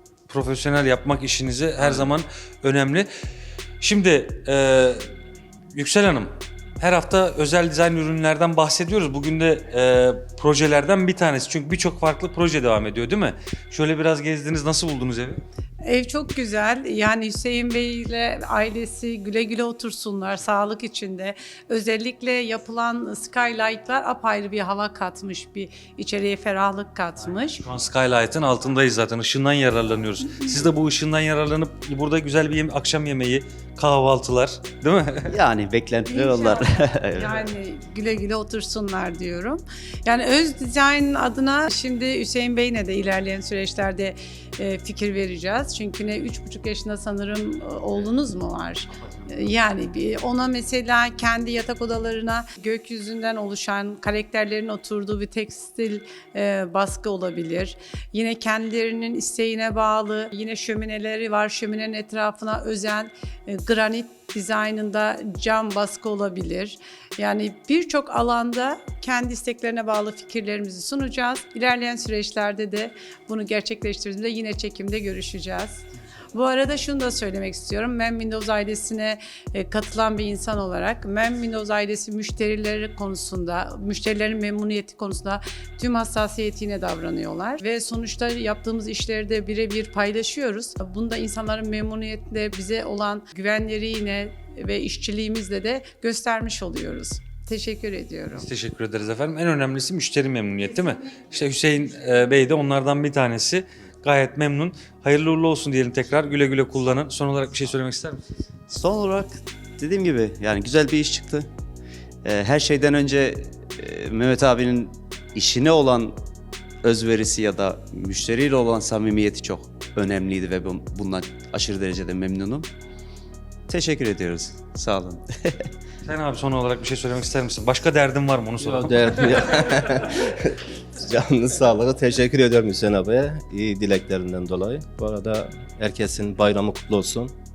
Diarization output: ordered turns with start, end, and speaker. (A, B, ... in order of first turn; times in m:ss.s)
0:00.3-0:03.1 A
0:03.8-0:05.1 A
0:05.7-0:15.4 A
0:15.8-0:27.6 B
0:27.6-0:35.3 A
0:35.3-0:37.4 C
0:36.1-1:38.5 B
1:38.4-1:48.2 A
1:48.7-1:51.5 C
1:52.2-1:56.2 C
1:56.8-2:02.7 C
2:03.7-2:05.7 C
2:06.0-2:09.8 A
2:08.6-2:17.3 D